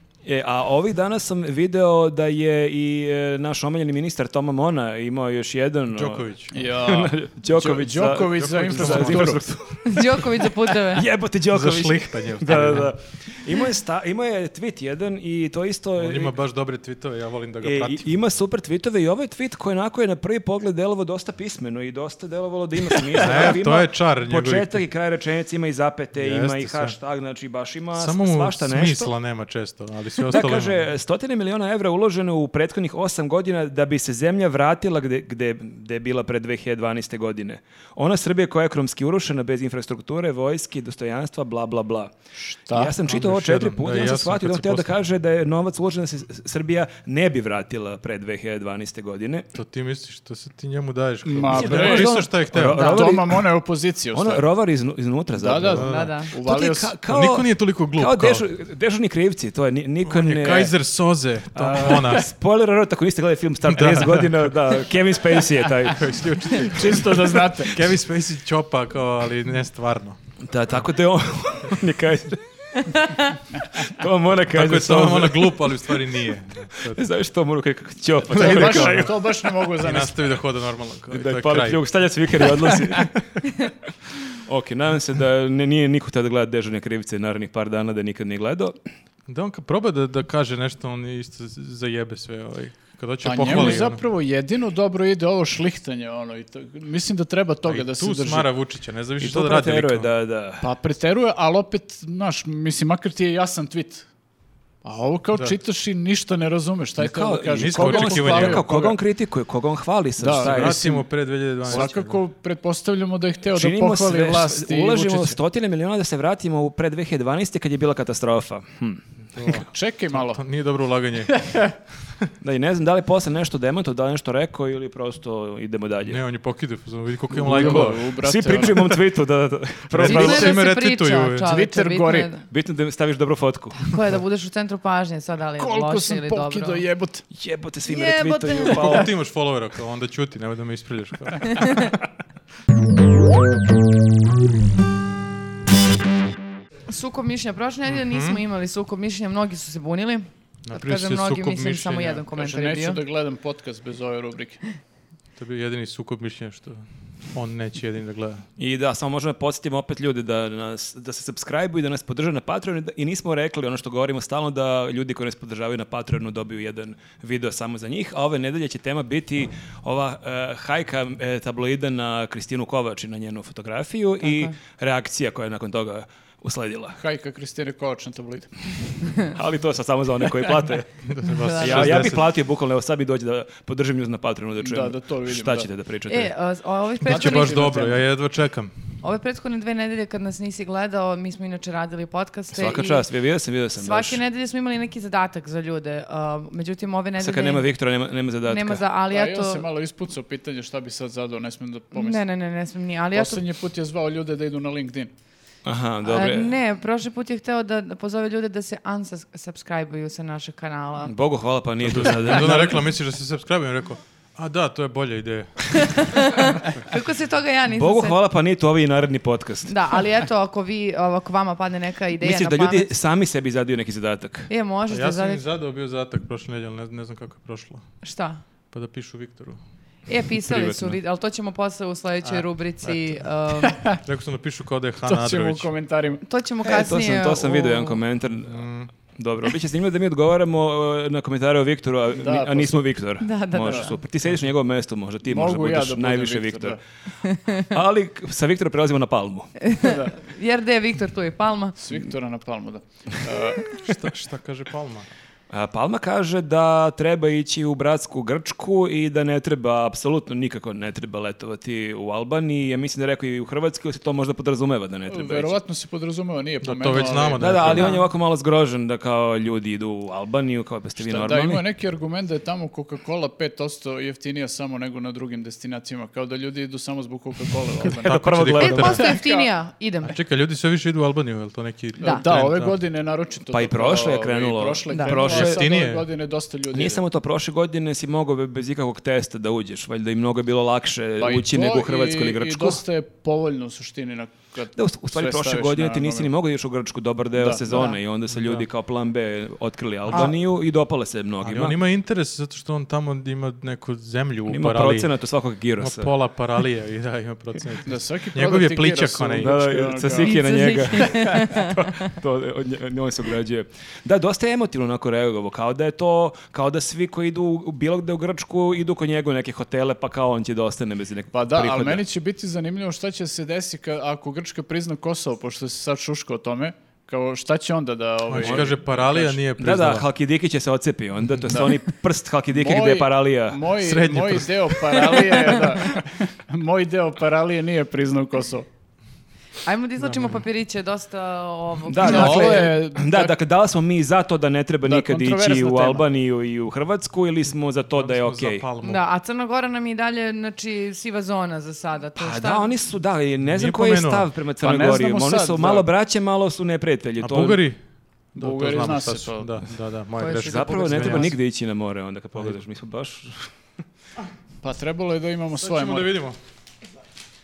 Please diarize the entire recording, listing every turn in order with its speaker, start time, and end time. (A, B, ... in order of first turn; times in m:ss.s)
0:00.2-0:16.3 A
0:05.9-0:06.6 B
0:06.5-0:09.5 C
0:08.3-0:09.6 B
0:09.8-0:11.0 D
0:11.5-0:12.9 B
0:16.0-0:18.1 B
0:17.6-0:29.1 A
0:23.2-0:24.8 B
0:26.2-0:27.0 B
0:28.0-0:30.9 B
0:30.3-0:42.1 A
0:42.4-0:43.0 C
0:42.7-0:49.5 A
0:43.1-0:44.9 B
0:49.6-0:52.9 B
0:51.3-0:54.4 C
0:51.5-0:53.5 A
0:52.8-0:53.0 D
0:54.1-1:00.8 A
0:55.4-0:56.9 C
0:55.7-0:56.1 B
0:55.8-0:56.3 D
0:57.1-0:58.4 B
1:00.0-1:02.3 B
1:01.6-1:06.1 A
1:03.7-1:04.5 B
1:05.8-1:10.2 B
1:06.7-1:07.8 C
1:10.5-1:16.0 A
1:14.5-1:17.0 B
1:16.8-1:19.1 A
1:18.3-1:19.1 B
1:18.3-1:20.2 C
1:19.8-1:21.8 B
1:21.1-1:23.7 A
1:24.3-1:28.8 A
1:29.3-1:34.0 B
1:33.2-1:38.5 C
1:33.5-1:33.8 A
1:37.6-1:40.1 B
1:39.2-1:40.7 A
1:40.6-1:44.1 C
1:44.8-1:49.0 C
1:47.0-1:50.9 A
1:47.6-1:48.6 B
1:50.2-1:51.1 C
1:50.4-1:52.2 B
1:51.6-1:55.4 C
1:53.5-1:59.6 A
1:59.4-2:01.4 B
1:59.6-2:00.4 C
2:01.4-2:01.7 C
2:02.4-2:06.2 A
2:06.1-2:08.1 B
2:07.3-2:09.0 C
2:07.5-2:10.6 A
2:09.9-2:11.5 B
2:10.0-2:12.4 D
2:11.4-2:12.3 C
2:12.5-2:13.9 A
2:13.8-2:16.8 D
2:15.6-2:17.2 C
2:17.3-2:19.1 A
2:17.9-2:19.1 D
2:18.7-2:22.0 B
2:26.9-2:33.0 D
2:27.9-2:28.4 B
2:30.6-2:32.2 B
2:32.3-2:34.6 C
2:35.4-2:38.4 B
2:38.6-2:57.0 A
2:54.2-2:54.5 D
2:57.0-2:58.5 C
2:59.2-3:00.9 A
3:01.0-3:02.3 B
3:01.3-3:01.9 D
3:01.6-3:06.3 A
3:04.6-3:05.7 C
3:06.1-3:07.8 D
3:07.0-3:08.7 B
3:07.1-3:08.0 C
3:09.0-3:13.0 D
3:12.5-3:14.2 A
3:13.8-3:17.6 D
3:17.2-3:18.8 A
3:18.5-3:19.6 D
3:19.1-3:22.2 C
3:21.9-3:23.4 D
3:23.1-3:25.1 C
3:25.6-3:26.5 A
3:26.0-3:31.1 D
3:31.0-3:32.8 A
3:31.8-3:36.1 B
3:35.9-3:38.2 D
3:37.7-3:39.7 A
3:39.7-3:42.9 D
3:42.2-3:44.5 A
3:44.5-3:45.4 D
3:44.9-3:47.8 B
3:48.0-3:48.4 D
3:48.7-3:49.6 B
3:50.1-3:53.8 D
3:50.5-3:50.9 B
3:52.2-3:53.3 B
3:54.0-3:55.7 B
3:55.1-3:56.2 C
3:56.2-3:58.0 D
3:56.6-3:58.6 A
3:58.4-3:58.9 B
3:59.2-4:06.8 A
4:02.2-4:02.9 C
4:03.2-4:04.0 D
4:04.2-4:04.5 B
4:05.3-4:06.8 C
4:07.2-4:07.7 D
4:07.6-4:09.6 A
4:09.6-4:11.8 D
4:09.8-4:10.2 C
4:11.8-4:13.7 C
4:13.7-4:15.1 B
4:15.5-4:25.6 A
4:25.1-4:27.8 C
4:26.6-4:28.0 B
4:27.4-4:31.6 A
4:27.8-4:28.0 D
4:31.0-4:39.5 C
4:37.9-4:39.0 A
4:38.0-4:39.0 B
4:38.6-4:40.2 D
4:40.0-4:42.8 B
4:42.0-4:47.0 C
4:43.5-4:45.7 A
4:44.9-4:45.2 D
4:45.3-4:46.1 B
4:46.7-4:52.8 A
4:51.2-4:56.3 C
4:54.8-5:01.8 A
4:57.4-4:57.9 C
4:57.7-4:58.0 D
4:58.3-4:58.6 B
5:01.4-5:05.1 B
5:04.5-5:06.1 A
5:05.8-5:09.6 B
5:07.9-5:10.3 C
5:09.4-5:22.0 A
5:10.2-5:12.1 D
5:11.0-5:11.3 C
5:21.3-5:29.4 C
5:28.3-5:30.1 B
5:28.4-5:28.8 A
5:29.6-5:33.6 A
5:31.5-5:31.8 C
5:32.5-5:38.7 C
5:33.8-5:34.8 B
5:39.6-5:42.6 D
5:40.0-5:40.4 B
5:41.9-5:48.7 A
5:42.0-5:43.4 C
5:42.1-5:42.7 B
5:44.8-5:46.0 C
5:47.9-5:49.0 B
5:48.8-5:52.7 D
5:52.2-5:57.6 A
5:53.4-5:54.3 B
5:54.6-5:55.9 C
5:57.2-5:57.8 B
5:58.4-5:59.6 C
5:58.4-6:01.4 B
6:00.2-6:01.4 D
6:00.4-6:03.5 A
6:04.6-6:06.2 C
6:05.6-6:06.4 B